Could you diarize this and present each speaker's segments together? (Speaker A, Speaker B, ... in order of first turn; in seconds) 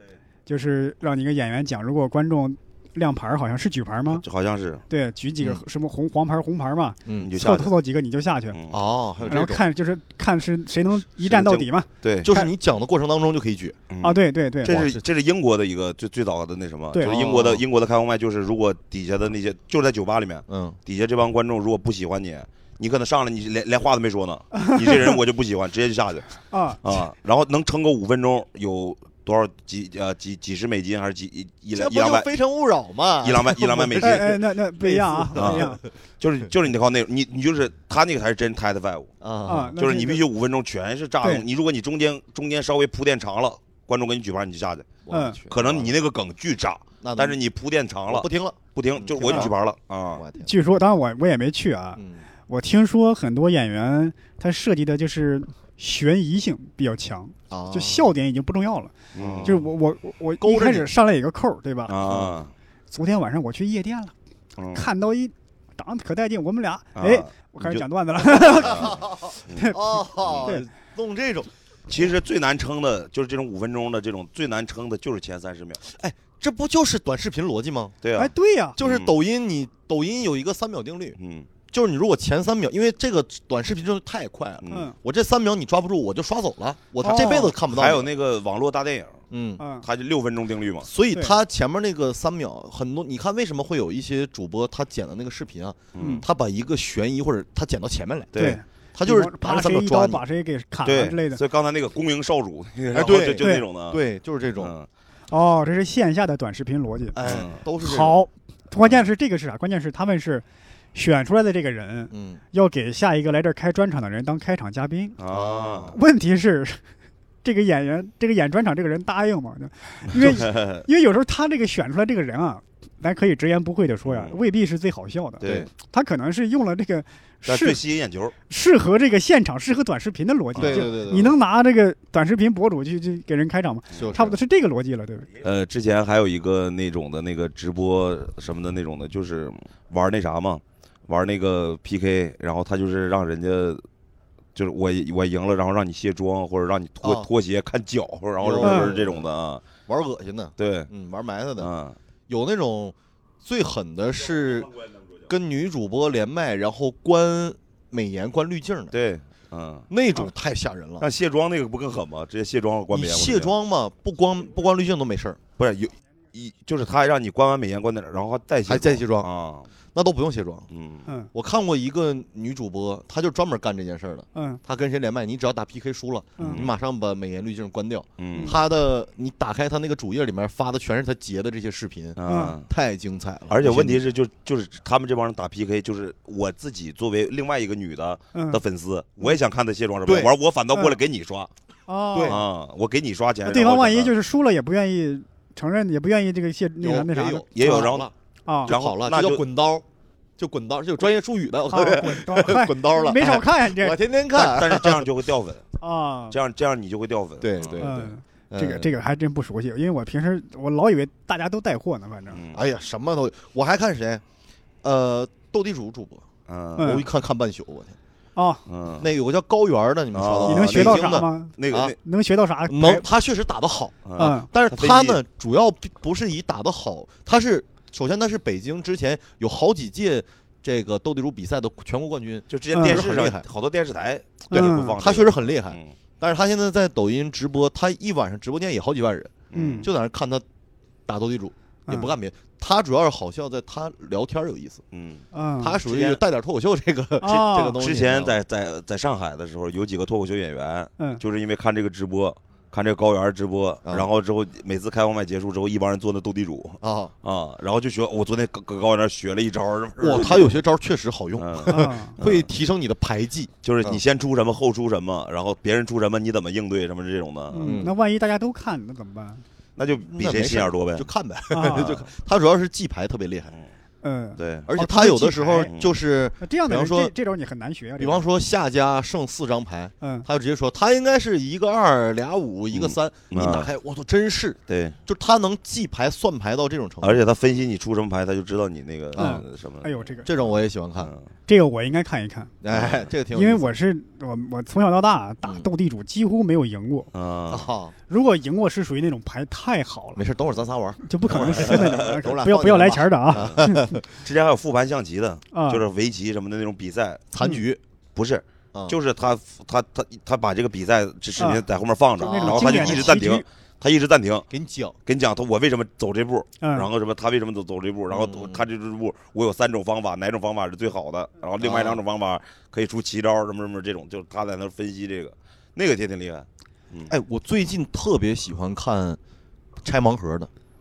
Speaker A: 0.5-4.2, 4.9-8.6, 9.3-12.5, 14.0-14.8, 24.5-25.2, 26.5-26.8, 34.0-35.8, 39.5-40.2, 45.1-45.4, 49.2-49.5, 50.4-58.9, 59.4-62.0, 62.9-64.1, 64.7-70.7, 78.2-78.8, 84.7-85.0, 87.0-87.5, 89.6-89.9, 96.0-96.2, 98.4-101.4, 103.4-103.7, 105.3-107.2, 107.8-110.4, 111.0-115.2, 115.9-116.8, 117.4-127.8, 128.5-135.3, 148.6-148.9, 174.3-174.6, 176.4-176.6, 182.3-182.6, 188.3-188.6, 191.9-192.4, 193.5-197.9, 198.5-198.7, 201.7-204.0, 205.8-206.4, 207.8-212.4, 216.8-217.1, 218.4-218.6, 220.5-223.1, 224.2-224.5, 232.7-233.0, 234.5-235.0, 239.5-239.9, 241.9-242.1, 245.3-245.8, 247.2-247.8, 261.7-262.2, 267.5-269.4, 271.5-271.9, 274.0-275.7, 276.4-278.3, 280.0-280.3, 289.2-290.3, 291.5-292.5, 293.3-297.1, 298.1-300.2, 301.0-304.0, 305.5-305.8, 311.4-311.6, 312.2-313.5, 316.6-316.9
Speaker B: 4.1-4.8, 7.2-7.7, 8.5-8.8, 11.2-12.3, 13.9-32.3, 33.2-34.4, 35.4-39.1, 39.8-50.2, 59.1-59.6, 61.9-62.5, 64.6-64.9, 67.0-67.8, 68.4-68.9, 69.5-70.5, 71.9-75.9, 78.0-79.2, 81.2-81.5, 84.6-84.9, 87.1-89.2, 89.8-90.9, 96.0-96.3, 98.3-98.6, 100.8-104.0, 104.6-104.9, 107.2-107.6, 115.2-116.0, 120.1-120.8, 124.0-124.4, 125.4-125.7, 127.5-128.3, 130.6-130.9, 135.4-143.8, 144.6-149.6, 150.6-150.9, 151.6-152.0, 158.9-159.9, 161.0-163.5, 165.6-169.7, 170.7-171.1, 176.4-176.7, 178.2-178.6, 182.2-182.7, 183.5-191.5, 192.2-194.2, 197.6-198.1, 198.7-199.4, 204.3-205.7, 206.3-207.9, 212.3-212.6, 216.5-217.0, 218.7-219.1, 220.1-222.0, 224.1-225.2, 232.5-235.9, 239.5-239.9, 244.9-245.3, 245.8-246.2, 247.2-260.6, 261.4-262.5, 263.6-267.8, 269.8-271.1, 274.4-274.7, 275.7-275.9, 282.7-283.7, 284.7-285.0, 287.0-290.1, 291.0-291.3, 292.7-293.1, 297.1-297.7, 301.3-302.2, 304.1-307.3, 308.2-314.5, 315.1-327.1
Speaker C: 7.1-7.3, 8.7-9.7, 12.2-13.8, 14.7-15.0, 17.0-17.6, 20.5-20.8, 31.7-35.8, 39.2-39.8, 45.0-45.9, 47.0-47.4, 48.1-49.6, 50.1-50.5, 52.0-52.3, 57.5-58.1, 59.2-59.6, 60.4-60.9, 62.0-62.3, 68.7-72.1, 75.8-78.0, 78.8-81.2, 81.7-88.1, 89.3-89.6, 90.8-98.4, 98.9-100.2, 102.9-104.7, 107.1-108.2, 112.1-112.4, 115.3-116.0, 125.4-125.7, 130.6-131.4, 133.9-134.4, 147.0-147.3, 148.4-149.3, 149.9-151.7, 152.3-154.7, 155.3-158.9, 159.9-161.1, 162.9-165.4, 168.7-169.3, 169.9-170.7, 171.3-184.1, 190.1-190.3, 192.1-192.4, 196.8-198.1, 198.7-199.8, 200.4-205.1, 207.4-208.9, 212.5-214.2, 214.8-216.3, 216.8-218.0, 219.0-221.9, 222.7-233.4, 234.5-240.4, 241.1-244.8, 245.6-248.4, 256.8-257.1, 260.0-264.0, 267.6-267.9, 270.1-273.5, 274.7-277.1, 278.0-287.2, 289.1-289.4, 290.2-291.1, 292.6-293.8, 295.4-295.7, 297.5-297.9, 300.2-304.1, 307.3-307.8, 312.2-313.2, 314.5-315.0, 318.1-318.6, 321.6-322.0, 327.1-329.2, 329.8-330.5